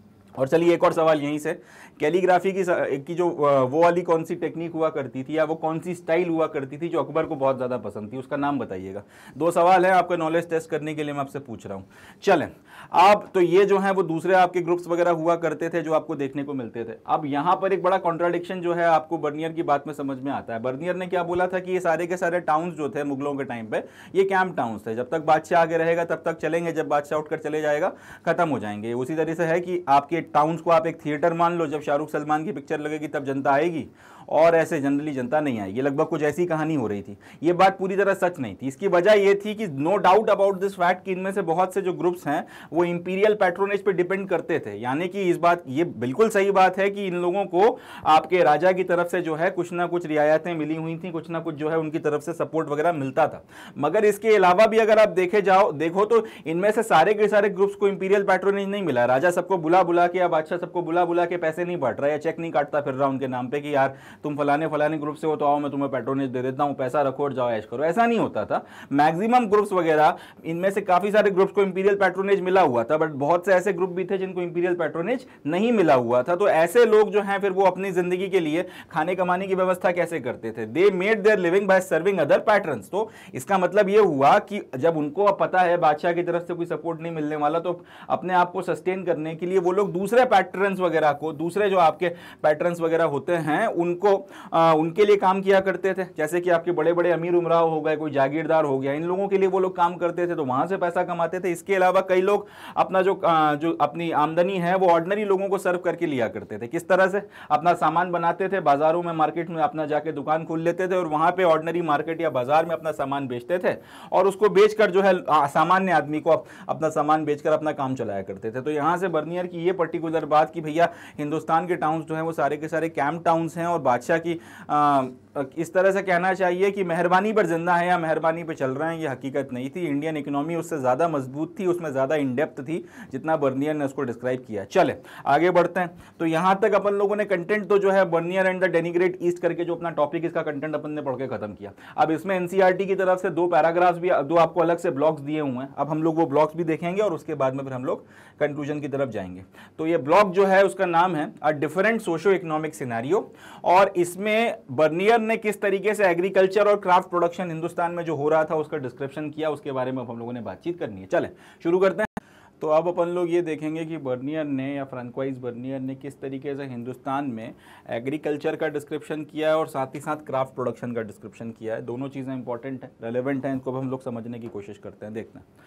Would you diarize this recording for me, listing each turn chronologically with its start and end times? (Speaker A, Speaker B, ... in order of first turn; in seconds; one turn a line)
Speaker A: 0.4-175.4